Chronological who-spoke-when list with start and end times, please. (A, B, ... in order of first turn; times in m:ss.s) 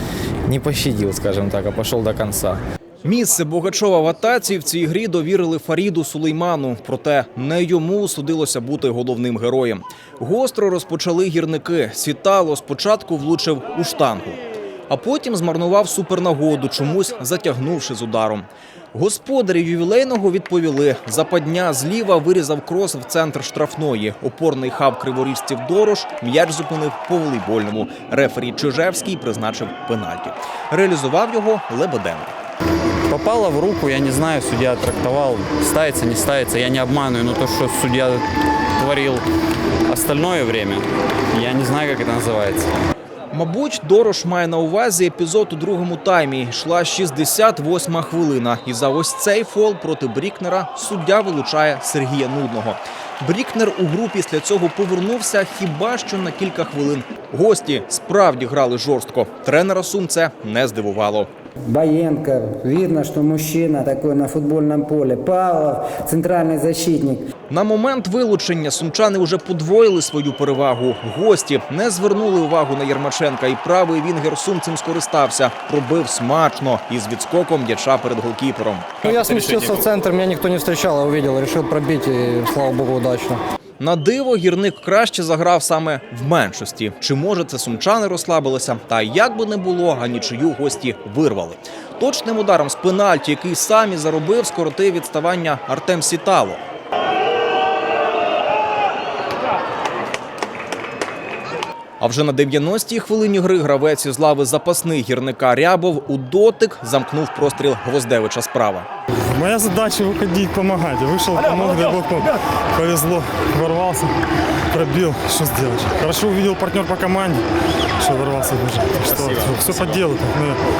0:00.5-0:02.6 A
0:03.0-0:32.3 B
0:33.1-0:38.2 C
0:38.8-0:39.2 C
0:39.9-0:42.7 C
0:43.3-1:01.3 B
1:01.7-1:07.2 D
1:07.5-1:19.1 B
1:19.0-1:23.4 E
1:23.8-1:36.6 B
1:42.0-1:48.9 B
1:49.3-1:54.1 F
1:54.7-1:57.4 F
1:58.0-2:00.6 F